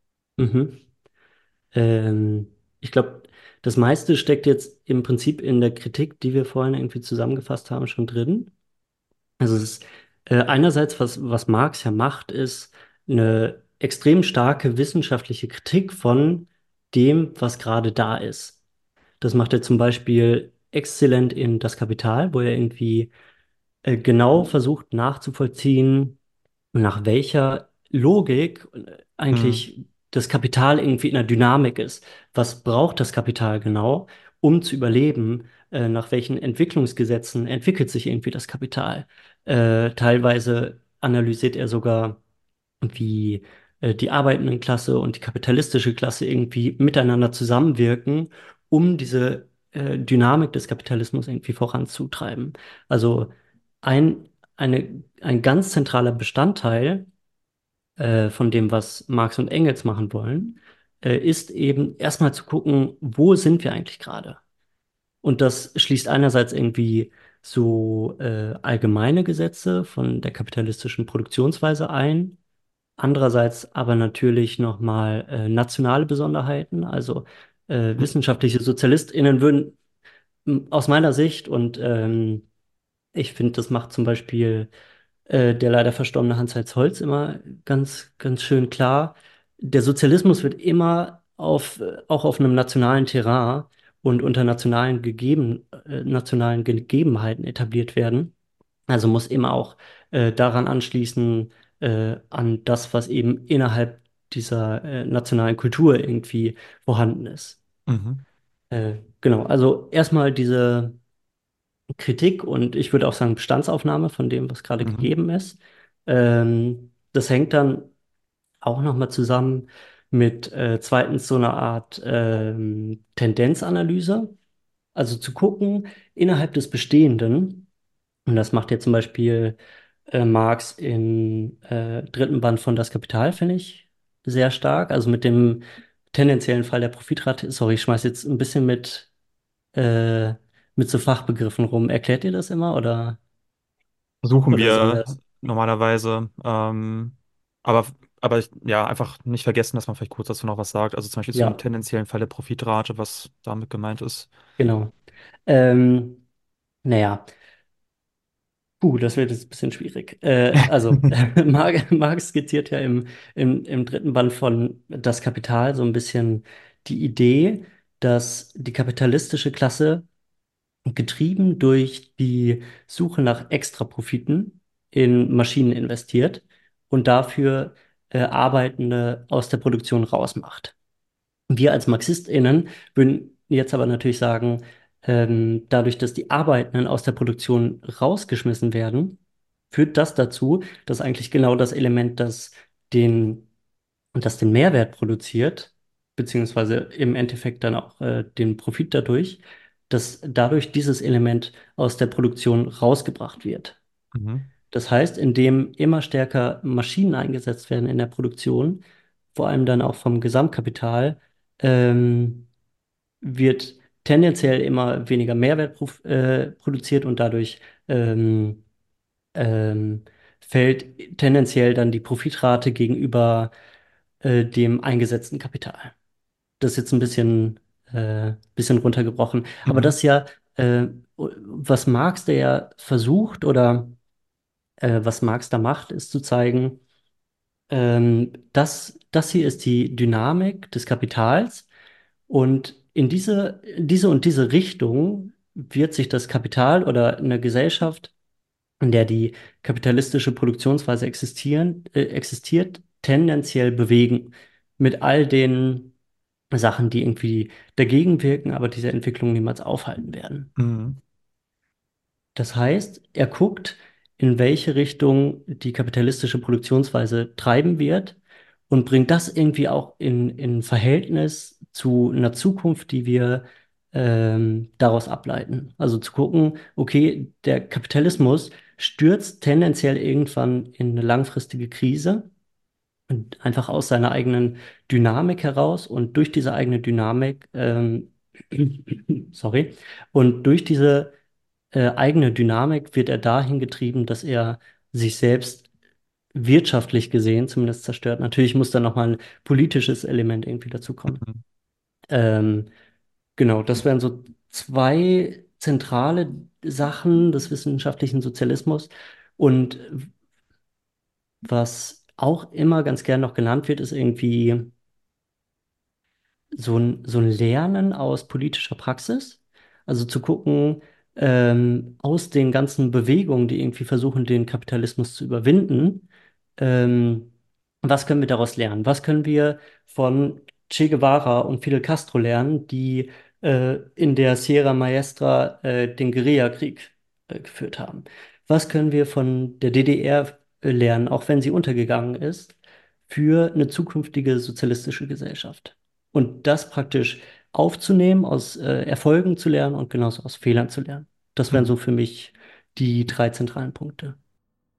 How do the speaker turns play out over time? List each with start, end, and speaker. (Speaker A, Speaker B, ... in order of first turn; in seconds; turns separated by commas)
Speaker A: 0.4-0.8, Speaker A: 1.7-8.5, Speaker A: 9.4-18.6, Speaker A: 19.2-23.1, Speaker A: 23.8-26.2, Speaker A: 26.7-42.2, Speaker B: 29.3-29.6, Speaker A: 42.8-53.3, Speaker A: 53.8-57.1, Speaker A: 58.0-64.4, Speaker A: 65.2-72.4, Speaker A: 73.0-79.8, Speaker A: 80.5-82.5, Speaker A: 83.1-84.7, Speaker A: 85.3-98.3, Speaker A: 98.9-107.6, Speaker B: 107.9-108.2, Speaker A: 108.7-111.0, Speaker A: 112.0-117.9, Speaker B: 114.8-115.1, Speaker A: 118.6-124.3, Speaker A: 124.9-127.7, Speaker A: 128.2-129.6, Speaker A: 130.1-139.1, Speaker A: 139.7-143.2, Speaker B: 144.2-154.3, Speaker A: 144.5-145.1, Speaker A: 151.3-151.6, Speaker A: 154.6-154.9, Speaker A: 155.5-156.2, Speaker A: 156.8-157.2, Speaker A: 158.8-170.1, Speaker A: 170.9-180.7, Speaker A: 181.5-189.2, Speaker A: 189.7-193.5, Speaker A: 194.2-203.8, Speaker B: 204.1-204.5, Speaker A: 204.7-208.8, Speaker A: 209.3-212.5, Speaker A: 213.2-218.6, Speaker A: 219.3-223.5, Speaker A: 224.2-225.9, Speaker A: 226.6-234.0, Speaker B: 229.7-229.9, Speaker A: 234.8-236.8, Speaker A: 237.7-241.7, Speaker A: 242.3-248.1, Speaker A: 248.8-255.9, Speaker A: 256.5-260.5, Speaker B: 260.6-261.0, Speaker A: 262.4-268.2, Speaker A: 268.7-282.3, Speaker A: 283.1-291.1, Speaker A: 291.7-295.6, Speaker A: 296.3-301.2, Speaker B: 301.1-301.4, Speaker A: 302.1-302.7, Speaker A: 303.4-310.1, Speaker A: 311.4-314.7, Speaker A: 316.5-326.1, Speaker A: 326.6-327.3, Speaker A: 327.8-342.6, Speaker A: 343.1-354.2